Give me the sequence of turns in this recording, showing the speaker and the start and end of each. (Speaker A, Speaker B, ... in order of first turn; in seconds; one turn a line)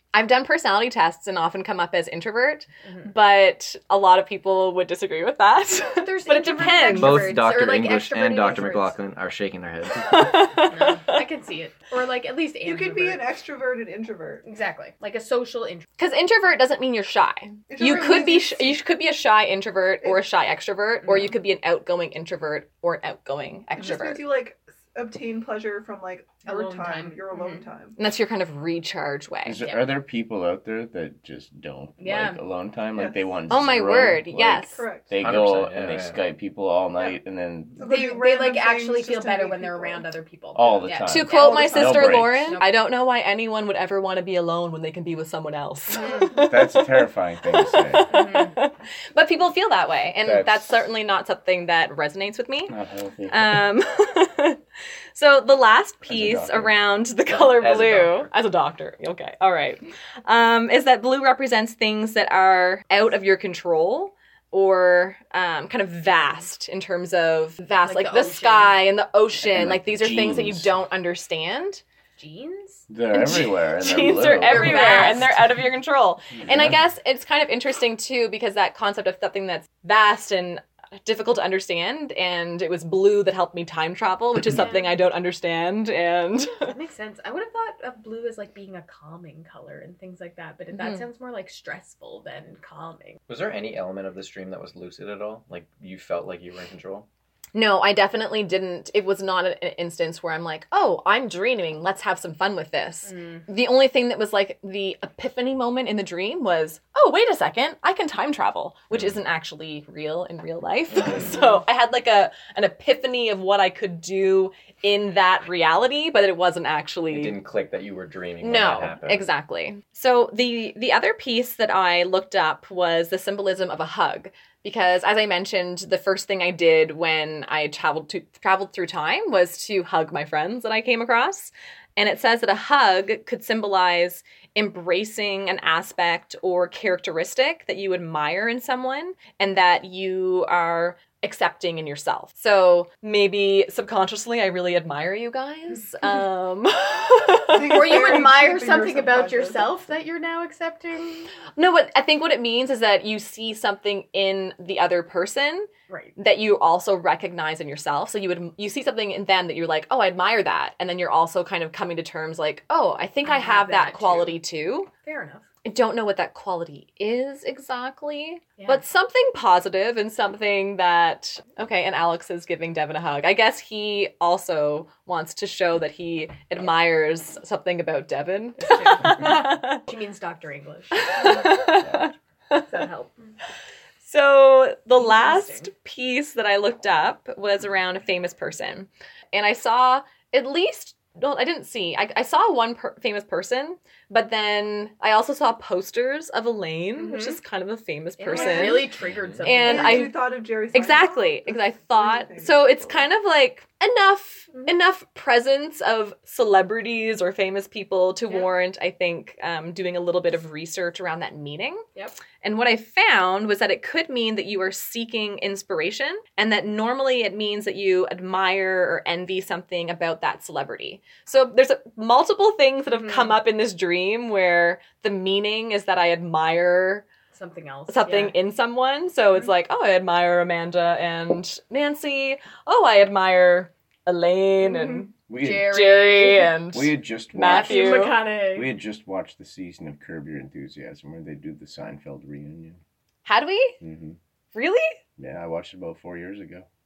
Speaker A: 0.1-7.3
Speaker B: 2.8-3.1
Speaker B: 5.8-8.9
Speaker C: 6.9-10.1
Speaker A: 10.1-11.2
Speaker B: 10.6-13.2
Speaker D: 12.6-14.5
Speaker B: 14.4-15.8
Speaker A: 16.0-24.2
Speaker D: 17.7-18.8
Speaker B: 21.1-21.3
Speaker D: 23.8-28.0
Speaker B: 26.4-27.6
Speaker A: 28.0-29.6
Speaker E: 29.4-37.8
Speaker B: 32.0-32.4
Speaker D: 33.0-33.2
Speaker A: 33.5-34.8
Speaker D: 34.7-35.1
Speaker C: 35.2-36.2
Speaker D: 37.8-40.1
Speaker B: 37.8-42.7
Speaker E: 40.5-42.6
Speaker A: 41.1-46.8
Speaker D: 41.4-42.2
Speaker B: 46.0-46.4
Speaker E: 46.4-48.1
Speaker A: 47.5-52.7
Speaker B: 48.1-48.5
Speaker E: 50.2-50.7
Speaker E: 52.7-53.7
Speaker A: 53.3-54.6
Speaker A: 55.1-71.8
Speaker E: 56.0-56.8
Speaker C: 57.3-58.3
Speaker B: 67.8-68.8
Speaker E: 69.4-70.7
Speaker B: 72.2-72.9
Speaker E: 72.9-75.1
Speaker A: 73.1-86.8
Speaker B: 74.4-75.4
Speaker E: 76.4-76.8
Speaker B: 84.5-85.0
Speaker B: 86.6-93.2
Speaker A: 90.7-91.0
Speaker C: 93.3-97.1
Speaker A: 97.5-117.4
Speaker B: 103.0-103.4
Speaker B: 111.3-111.6
Speaker C: 117.1-119.2
Speaker A: 118.4-148.0
Speaker D: 147.5-149.7
Speaker B: 147.5-151.3
Speaker A: 151.6-164.9
Speaker B: 155.9-156.1
Speaker B: 163.2-165.4
Speaker A: 165.6-179.8
Speaker B: 178.6-181.6
Speaker A: 180.9-182.8
Speaker B: 182.6-183.3
Speaker A: 184.0-198.9
Speaker B: 185.0-185.7
Speaker B: 197.0-197.4
Speaker B: 198.2-200.1
Speaker D: 198.3-198.9
Speaker A: 199.4-200.2
Speaker D: 199.6-203.1
Speaker A: 200.7-211.8
Speaker A: 212.4-227.1
Speaker B: 222.9-223.3
Speaker B: 227.3-228.4
Speaker A: 227.9-235.1
Speaker B: 234.6-236.6
Speaker E: 235.3-235.9
Speaker A: 235.7-238.2
Speaker E: 236.7-242.8
Speaker B: 237.4-238.7
Speaker A: 243.2-243.8
Speaker E: 243.8-244.2
Speaker A: 244.5-245.0
Speaker E: 245.2-246.7